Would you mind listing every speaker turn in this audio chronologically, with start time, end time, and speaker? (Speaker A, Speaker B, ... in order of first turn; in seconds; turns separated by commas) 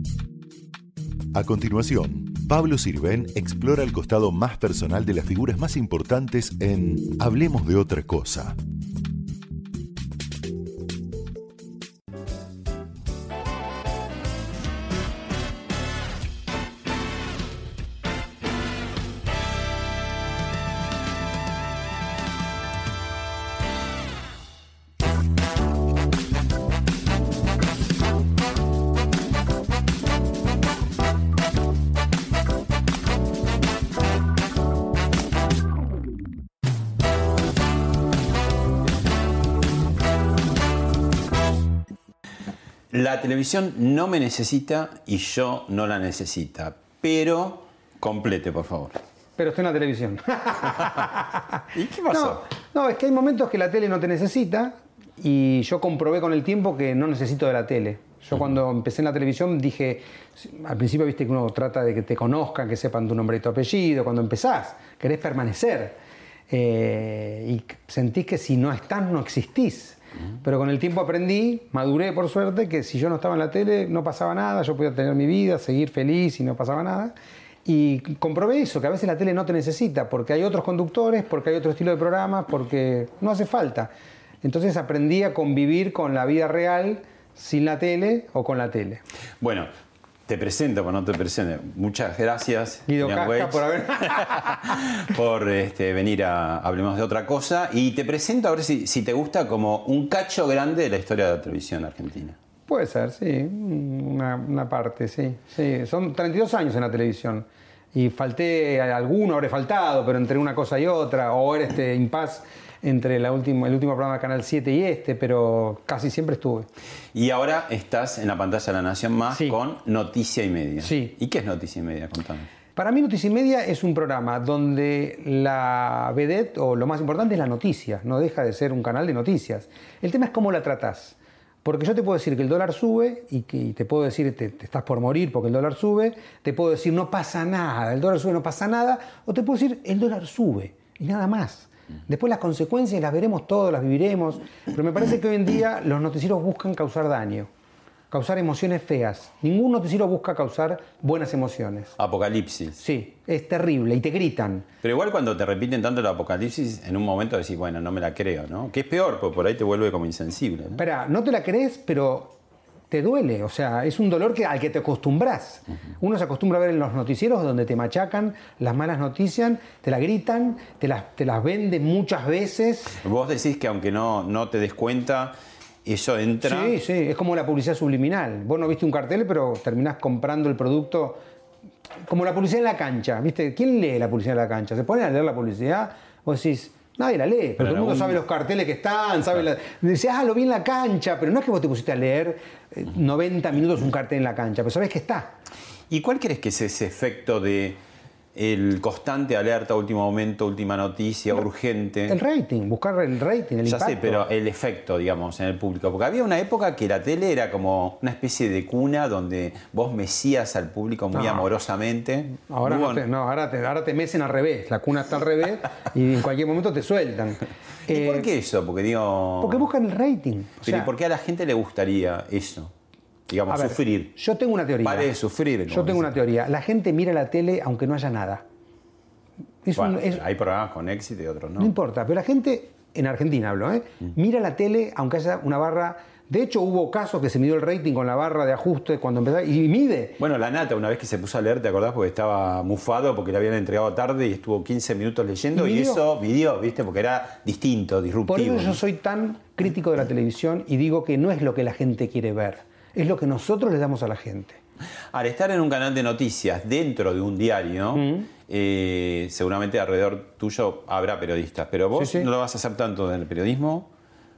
Speaker A: 1.3-8.6, Speaker B: 42.9-49.0, Speaker C: 49.4-66.0, Speaker B: 51.7-52.4, Speaker C: 66.5-77.1, Speaker C: 77.7-83.9, Speaker C: 84.4-89.0, Speaker B: 89.4-89.7, Speaker B: 90.3-102.4, Speaker C: 92.9-94.8, Speaker C: 102.7-116.7, Speaker B: 117.1-122.5, Speaker C: 119.3-119.5, Speaker C: 120.8-121.1, Speaker C: 122.8-147.5, Speaker C: 148.1-151.9, Speaker B: 152.0-152.8, Speaker C: 152.8-154.7, Speaker B: 154.8-160.8, Speaker C: 160.8-162.3, Speaker C: 162.9-173.0, Speaker B: 173.0-176.8, Speaker C: 176.4-181.2, Speaker C: 182.1-195.3, Speaker B: 187.6-188.2, Speaker B: 195.9-197.8, Speaker B: 198.3-202.2, Speaker C: 202.1-204.3, Speaker B: 203.7-213.0, Speaker C: 211.1-211.4, Speaker C: 212.5-218.3, Speaker B: 217.9-219.6, Speaker C: 219.4-220.9, Speaker B: 220.6-222.7, Speaker B: 223.3-224.1, Speaker C: 223.5-225.1, Speaker B: 224.8-226.1, Speaker C: 225.7-228.4, Speaker C: 229.6-230.2, Speaker B: 229.7-231.7, Speaker C: 231.6-240.2, Speaker B: 240.2-248.8, Speaker C: 245.5-246.0, Speaker C: 248.3-254.6, Speaker B: 255.1-263.9, Speaker C: 257.9-258.3, Speaker C: 261.9-262.3